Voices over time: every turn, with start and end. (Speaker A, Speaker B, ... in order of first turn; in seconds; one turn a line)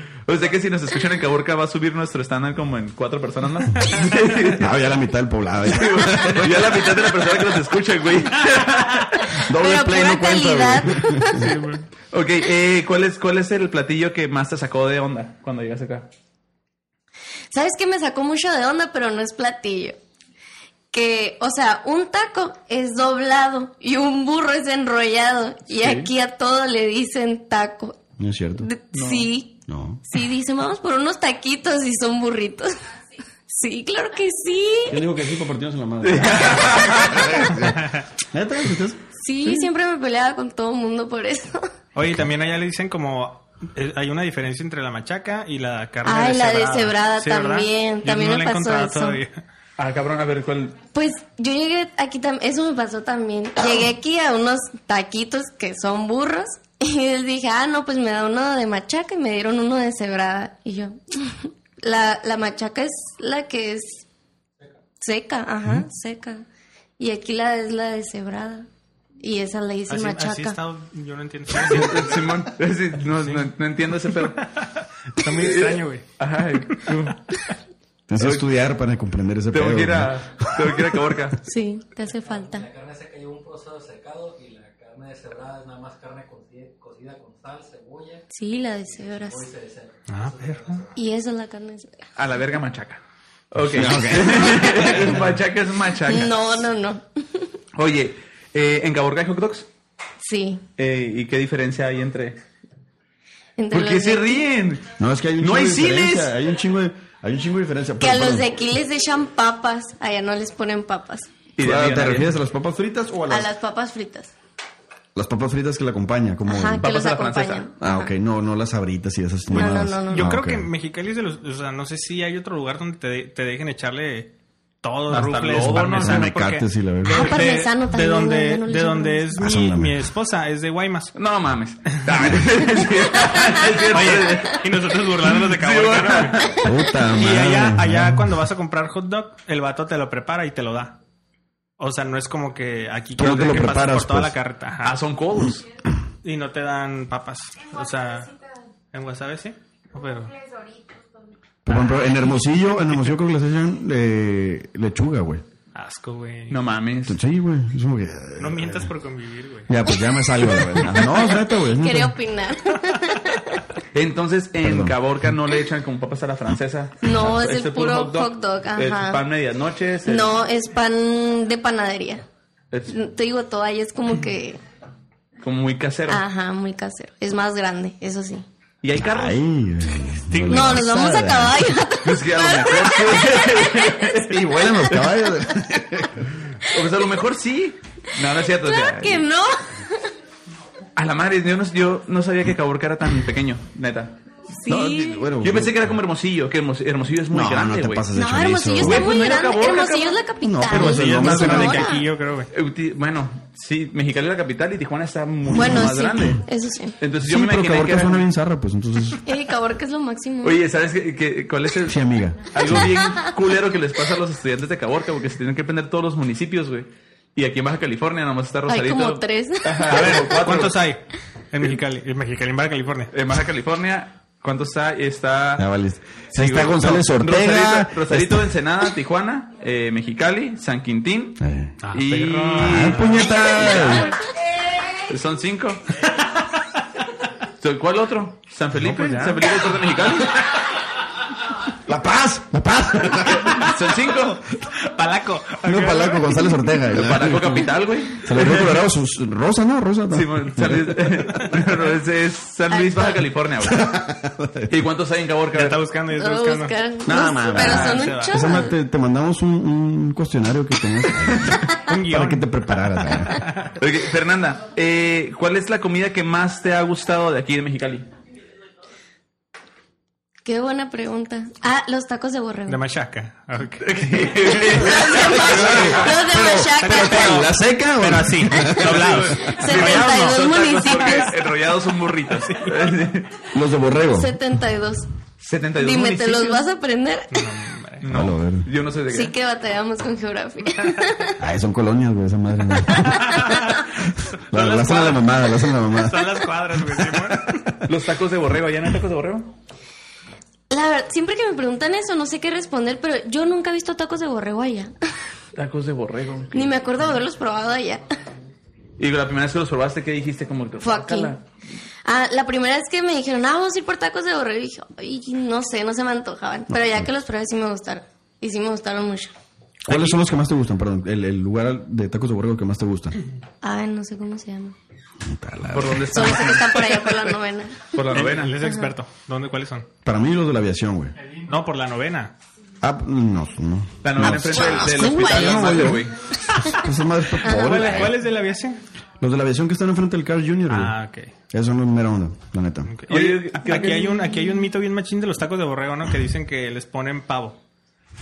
Speaker A: 0.3-4.8
Speaker B: 4.5-7.1
Speaker A: 5.6-9.4
Speaker B: 9.4-11.4
Speaker C: 9.6-11.5
Speaker D: 11.3-11.8
Speaker A: 12.1-16.1
Speaker C: 17.5-20.0
Speaker C: 20.9-28.0
Speaker A: 25.7-26.1
Speaker B: 28.2-28.7
Speaker C: 28.6-32.7
Speaker A: 28.9-29.3
Speaker B: 29.7-30.0
Speaker C: 33.5-35.0
Speaker B: 34.9-39.0
Speaker A: 36.0-37.5
Speaker D: 37.6-38.0
Speaker C: 39.2-41.7
Speaker D: 42.0-49.4
Speaker C: 46.0-49.2
Speaker A: 49.8-50.8
Speaker C: 50.9-64.0
Speaker C: 65.0-66.5
Speaker C: 67.0-68.7
Speaker C: 69.2-70.6
Speaker D: 69.9-72.4
Speaker A: 71.5-74.5
Speaker D: 73.2-73.5
Speaker D: 74.3-76.1
Speaker A: 75.3-77.2
Speaker B: 78.1-81.1
Speaker A: 78.2-78.5
Speaker A: 79.5-81.4
Speaker C: 81.4-82.7
Speaker E: 82.2-88.3
Speaker C: 88.3-89.5
Speaker E: 89.0-90.9
Speaker D: 90.1-90.8
Speaker C: 90.9-92.1
Speaker A: 92.2-96.3
Speaker B: 93.7-95.1
Speaker C: 94.3-94.9
Speaker C: 96.0-97.5
Speaker A: 97.8-99.7
Speaker C: 100.2-100.6
Speaker A: 100.8-102.4
Speaker C: 103.6-104.5
Speaker A: 103.7-106.3
Speaker B: 105.0-108.5
Speaker C: 108.0-111.3
Speaker A: 111.6-112.3
Speaker B: 111.6-113.5
Speaker C: 113.3-114.3
Speaker B: 115.2-116.9
Speaker C: 116.5-118.1
Speaker A: 116.8-117.7
Speaker B: 117.8-120.7
Speaker C: 119.5-120.3
Speaker D: 120.1-131.2
Speaker A: 125.1-126.3
Speaker B: 125.6-127.4
Speaker C: 127.1-129.2
Speaker B: 129.3-130.0
Speaker A: 131.2-136.5
Speaker B: 132.2-132.5
Speaker C: 133.3-133.6
Speaker D: 133.9-141.0
Speaker B: 136.6-138.4
Speaker D: 141.8-145.0
Speaker B: 143.2-144.4
Speaker A: 144.8-145.7
Speaker D: 146.2-148.3
Speaker D: 148.9-150.4
Speaker B: 151.7-155.4
Speaker D: 151.7-152.0
Speaker D: 155.7-156.6
Speaker A: 156.5-157.2
Speaker B: 157.1-158.9
Speaker D: 158.4-159.8
Speaker B: 159.7-162.2
Speaker D: 160.5-160.8
Speaker C: 161.0-163.6
Speaker A: 163.9-170.4
Speaker B: 164.6-165.0
Speaker C: 167.0-169.2
Speaker C: 170.1-172.3
Speaker C: 172.9-174.6
Speaker A: 175.4-176.2
Speaker C: 176.1-178.4
Speaker A: 178.8-179.4
Speaker B: 179.0-181.8
Speaker D: 180.3-180.8
Speaker C: 180.5-184.2
Speaker A: 182.0-185.1
Speaker B: 184.2-186.4
Speaker A: 186.6-189.3
Speaker C: 188.6-190.1
Speaker A: 191.0-194.2
Speaker C: 194.6-195.3
Speaker B: 194.7-196.0
Speaker A: 195.4-198.1
Speaker B: 197.3-199.1
Speaker C: 198.1-202.1
Speaker A: 198.8-200.2
Speaker B: 200.4-201.9
Speaker D: 200.7-202.5
Speaker A: 202.5-206.4
Speaker B: 205.5-206.3
Speaker C: 205.6-207.0
Speaker A: 207.0-208.3
Speaker B: 207.2-209.2
Speaker C: 209.2-210.6
Speaker A: 210.4-212.0
Speaker B: 211.9-212.9
Speaker A: 212.5-220.8
Speaker C: 218.7-220.2
Speaker D: 219.9-223.1
Speaker A: 223.1-225.7
Speaker B: 225.6-228.6
Speaker A: 226.3-234.1
Speaker B: 231.4-231.8
Speaker D: 231.8-233.3
Speaker B: 232.6-234.1
Speaker A: 235.1-235.8
Speaker A: 237.6-240.5
Speaker D: 238.8-239.5
Speaker B: 241.9-243.8
Speaker A: 243.4-244.5
Speaker D: 244.8-246.6
Speaker B: 245.6-251.4
Speaker A: 246.9-248.8
Speaker A: 250.1-254.0
Speaker C: 252.7-253.2
Speaker B: 253.6-254.8
Speaker A: 254.7-255.8
Speaker D: 255.5-256.8
Speaker C: 256.1-258.7
Speaker B: 257.1-263.5
Speaker D: 257.4-258.6
Speaker D: 261.7-262.5
Speaker D: 263.2-263.7
Speaker A: 263.8-268.1
Speaker C: 270.4-272.8
Speaker D: 272.7-274.3
Speaker A: 273.8-276.1
Speaker C: 274.6-277.4
Speaker B: 275.1-279.5
Speaker D: 275.4-276.1
Speaker D: 276.8-280.3
Speaker A: 278.7-283.5
Speaker C: 279.4-281.4
Speaker D: 282.3-283.0
Speaker B: 283.5-284.4
Speaker C: 284.1-285.1
Speaker A: 285.4-286.6
Speaker C: 285.8-287.5
Speaker D: 287.3-288.1
Speaker A: 288.0-289.3
Speaker B: 288.1-288.7
Speaker C: 289.1-291.4
Speaker B: 291.4-293.5
Speaker D: 293.0-297.7
Speaker B: 294.5-297.6
Speaker A: 297.9-299.5
Speaker C: 300.7-304.9
Speaker A: 305.6-306.8
Speaker C: 306.5-308.1
Speaker A: 309.0-311.4
Speaker C: 310.8-311.4
Speaker C: 312.1-319.3
Speaker B: 316.7-317.1
Speaker B: 319.8-323.2
Speaker C: 323.6-324.8
Speaker B: 325.2-326.4
Speaker A: 325.7-327.3
Speaker C: 326.1-327.9
Speaker A: 327.9-328.6
Speaker D: 328.1-329.9
Speaker C: 328.6-328.9
Speaker B: 330.1-331.1
Speaker D: 331.5-332.3
Speaker B: 332.8-336.1
Speaker A: 334.0-336.2
Speaker C: 334.5-336.8
Speaker B: 336.6-338.2
Speaker C: 337.4-337.8
Speaker D: 337.4-338.8
Speaker B: 339.2-340.9
Speaker D: 340.7-341.3
Speaker B: 341.5-342.9
Speaker D: 342.9-347.6
Speaker A: 343.1-344.3